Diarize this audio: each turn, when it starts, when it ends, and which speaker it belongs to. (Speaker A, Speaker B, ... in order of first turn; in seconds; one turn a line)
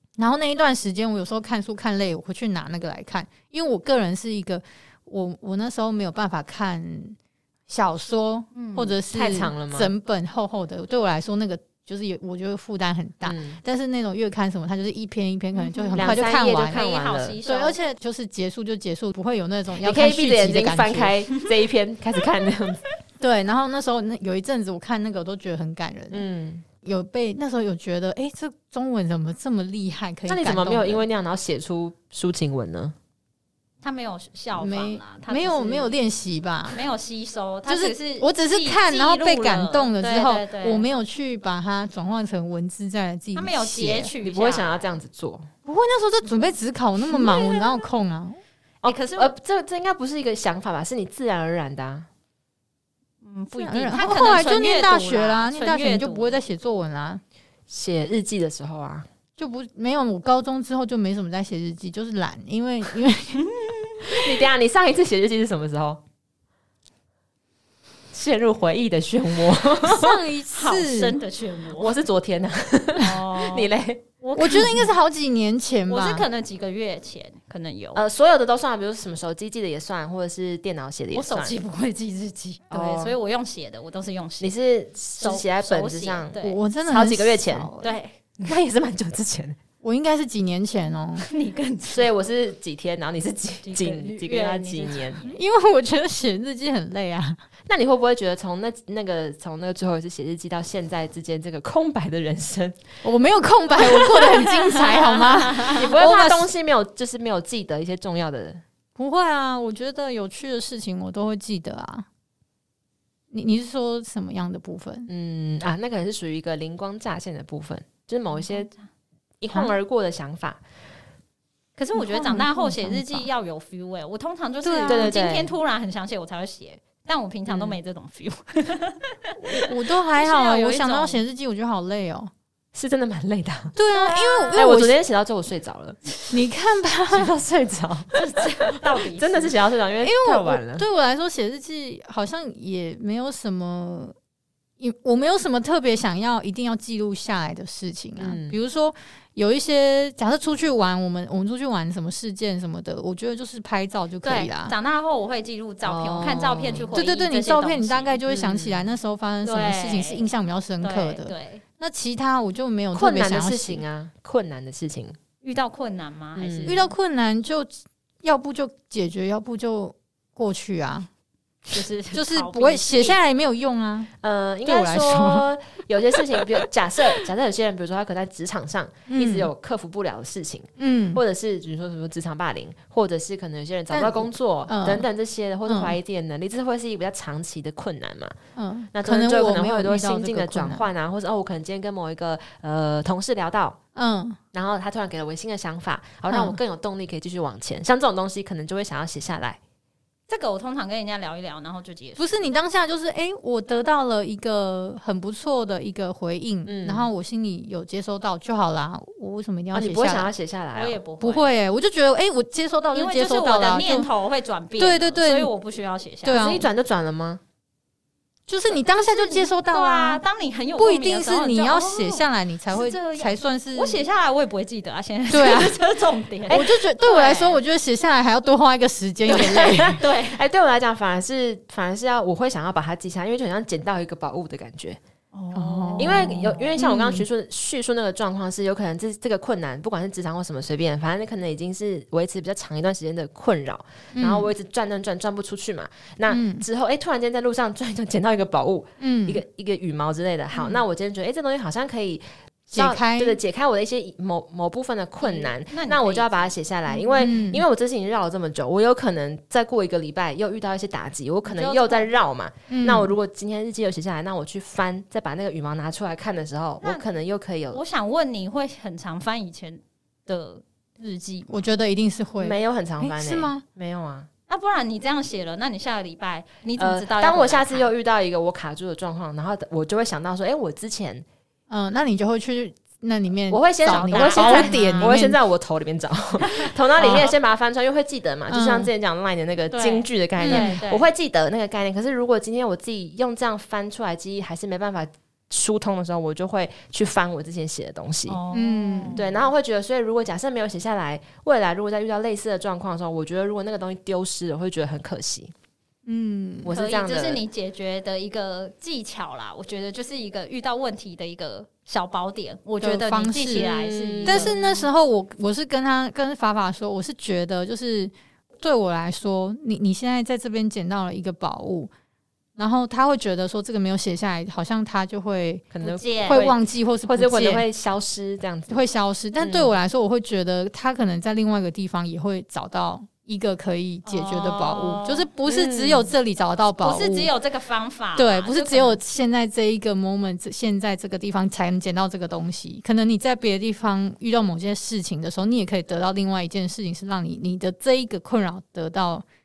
Speaker A: 0.2-7.2
Speaker A: 7.7-16.8
Speaker B: 8.5-8.9
Speaker C: 9.1-9.9
Speaker C: 13.2-13.6
Speaker B: 15.6-17.8
Speaker C: 15.9-17.4
Speaker A: 17.4-21.1
Speaker C: 19.8-22.8
Speaker A: 23.2-26.2
Speaker C: 26.1-26.6
Speaker A: 26.8-31.0
Speaker C: 30.3-32.9
Speaker B: 33.8-35.9
Speaker A: 34.5-36.8
Speaker B: 36.7-40.9
Speaker A: 37.7-44.1
Speaker B: 43.3-44.9
Speaker C: 44.2-45.5
Speaker A: 45.6-48.4
Speaker B: 47.1-47.9
Speaker B: 48.8-49.3
Speaker C: 48.8-52.1
Speaker B: 53.2-56.4
Speaker A: 53.5-57.2
Speaker C: 57.7-59.0
Speaker A: 59.4-63.4
Speaker B: 63.4-64.4
Speaker C: 64.0-66.0
Speaker C: 68.1-70.2
Speaker A: 69.8-71.2
Speaker B: 70.5-71.9
Speaker C: 71.7-74.0
Speaker B: 73.0-74.9
Speaker A: 74.3-76.2
Speaker B: 75.9-78.0
Speaker C: 77.9-81.6
Speaker B: 81.1-84.5
Speaker C: 82.7-83.1
Speaker C: 84.4-87.7
Speaker B: 85.2-86.6
Speaker A: 86.4-87.9
Speaker B: 87.8-88.2
Speaker C: 88.4-89.6
Speaker A: 89.8-91.2
Speaker B: 91.2-92.1
Speaker C: 91.9-95.2
Speaker B: 93.6-95.2
Speaker A: 95.2-97.4
Speaker C: 97.7-102.8
Speaker A: 103.0-106.5
Speaker C: 103.8-104.2
Speaker C: 105.6-108.6
Speaker A: 109.0-112.1
Speaker A: 113.3-115.1
Speaker C: 115.1-118.7
Speaker B: 118.3-118.8
Speaker C: 119.4-120.6
Speaker B: 121.8-131.2
Speaker A: 121.9-123.3
Speaker A: 124.6-125.1
Speaker C: 124.9-125.5
Speaker C: 127.5-127.8
Speaker A: 129.5-132.3
Speaker C: 132.7-133.8
Speaker A: 133.7-134.9
Speaker B: 133.9-134.6
Speaker C: 134.5-136.3
Speaker A: 136.3-137.3
Speaker C: 137.1-140.8
Speaker B: 138.1-139.5
Speaker A: 140.0-144.1
Speaker A: 144.8-154.7
Speaker C: 148.2-148.6
Speaker B: 154.2-158.2
Speaker C: 155.8-156.9
Speaker A: 156.9-163.8
Speaker C: 158.3-158.8
Speaker B: 159.4-160.2
Speaker B: 160.8-161.6
Speaker C: 162.9-165.2
Speaker B: 165.4-166.9
Speaker C: 166.3-166.8
Speaker A: 166.7-171.1
Speaker B: 171.7-173.2
Speaker A: 172.1-174.1
Speaker C: 174.2-188.3
Speaker A: 174.6-175.5
Speaker A: 179.1-179.5
Speaker A: 180.8-181.2
Speaker A: 183.9-185.1
Speaker A: 185.7-185.9
Speaker A: 188.6-190.9
Speaker C: 188.9-193.8
Speaker A: 193.9-194.4
Speaker C: 194.5-199.6
Speaker A: 196.3-196.6
Speaker B: 200.3-202.2
Speaker A: 202.2-210.3
Speaker C: 206.6-207.1
Speaker C: 209.7-211.0
Speaker B: 210.7-211.5
Speaker A: 211.2-214.1
Speaker B: 212.9-216.5
Speaker A: 214.8-215.5
Speaker A: 216.2-216.7
Speaker C: 216.3-217.4
Speaker A: 218.5-220.2
Speaker B: 218.7-227.6
Speaker A: 220.8-224.0
Speaker A: 225.3-225.8
Speaker A: 226.5-230.0
Speaker C: 229.3-235.0
Speaker B: 230.0-230.4
Speaker B: 235.3-236.7
Speaker A: 235.5-237.2
Speaker C: 236.0-267.8
Speaker A: 244.1-244.5
Speaker A: 246.3-246.6
Speaker A: 249.0-249.4
Speaker A: 252.7-253.4
Speaker B: 255.2-257.1
Speaker A: 257.2-257.6
Speaker B: 261.4-262.1
Speaker A: 262.7-263.1
Speaker B: 267.7-271.6
Speaker A: 271.5-273.6
Speaker C: 272.4-274.3
Speaker B: 274.5-277.9
Speaker C: 276.8-281.2
Speaker A: 281.7-285.4
Speaker C: 283.5-298.4
Speaker B: 283.9-285.1
Speaker B: 286.4-287.3
Speaker A: 288.5-288.9
Speaker B: 289.7-291.1
Speaker A: 290.4-290.8
Speaker B: 298.3-299.4
Speaker A: 298.5-299.2
Speaker C: 299.1-305.5
Speaker A: 306.1-306.7
Speaker C: 306.6-307.4
Speaker B: 306.7-314.9
Speaker A: 312.8-313.7
Speaker C: 313.5-314.5
Speaker A: 314.2-321.9
Speaker A: 322.6-325.7
Speaker C: 325.7-328.9
Speaker B: 325.8-326.5
Speaker A: 326.2-327.6
Speaker A: 328.7-337.3
Speaker C: 329.4-329.7
Speaker B: 334.0-335.3
Speaker C: 335.4-336.1
Speaker B: 336.8-339.0
Speaker A: 338.1-349.2